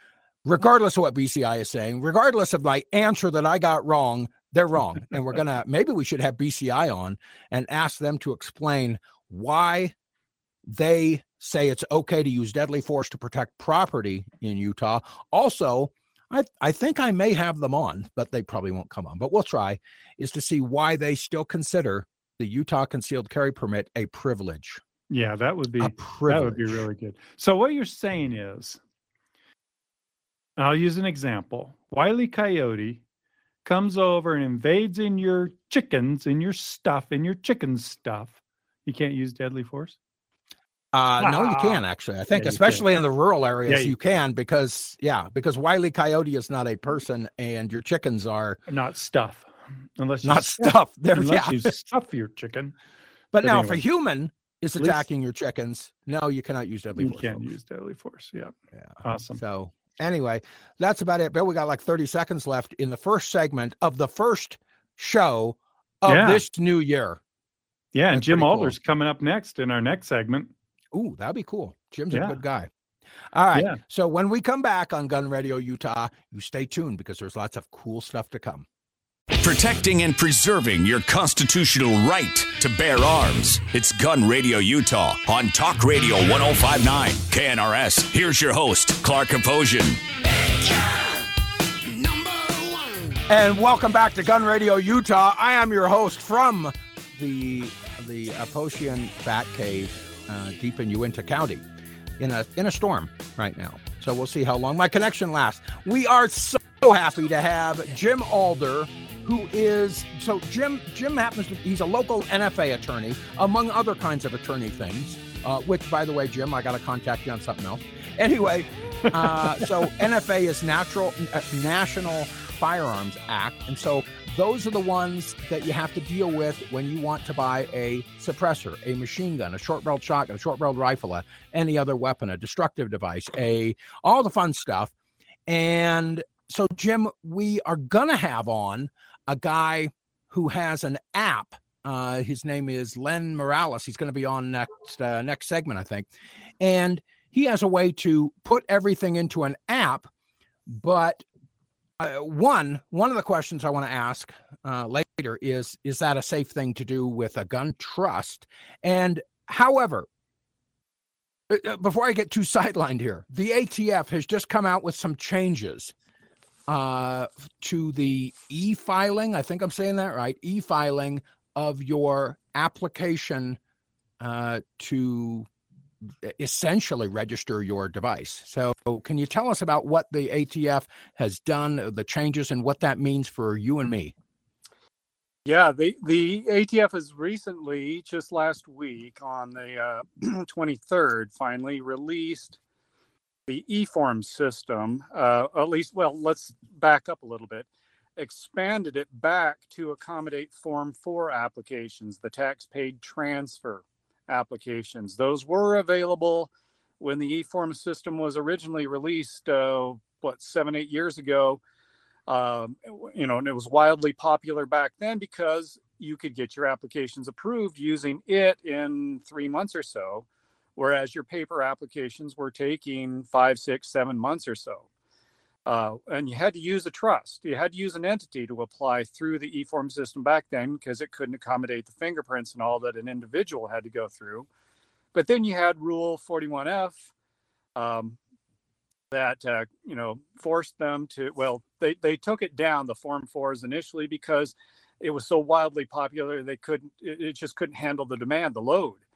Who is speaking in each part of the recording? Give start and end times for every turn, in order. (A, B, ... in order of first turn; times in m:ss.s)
0:00.4-0:09.9 A
0:10.6-0:24.8 A
0:25.1-0:28.8 B
0:25.8-0:26.8 A
0:30.6-0:33.0 B
0:33.6-0:40.0 B
0:40.9-0:48.6 A
0:41.2-0:41.8 B
0:42.3-0:42.8 B
0:43.7-0:43.9 B
0:48.7-0:52.7 B
0:50.2-0:51.7 A
0:53.3-0:57.4 A
0:53.4-0:53.8 B
0:54.8-0:55.0 B
0:57.0-0:59.4 B
0:58.7-1:07.2 A
1:06.0-1:06.4 B
1:07.9-1:10.5 B
1:08.1-1:08.7 A
1:10.9-1:12.7 A
1:12.1-1:12.4 B
1:13.3-1:18.6 A
1:13.5-1:13.8 B
1:19.4-1:30.0 C
1:33.3-1:41.6 A
1:42.2-2:14.9 A
1:59.1-1:59.7 B
2:15.5-2:30.1 A
2:30.7-2:31.2 A
2:32.0-2:40.1 A
2:41.5-2:45.9 A
2:46.7-2:53.6 A
2:54.2-2:55.5 A
2:56.2-3:04.1 A
3:05.4-3:12.6 D
3:13.5-3:31.6 D
3:32.3-3:44.9 D
3:45.6-3:54.5 D
3:55.1-3:57.1 D
3:57.7-3:58.2 D
3:59.1-4:09.0 D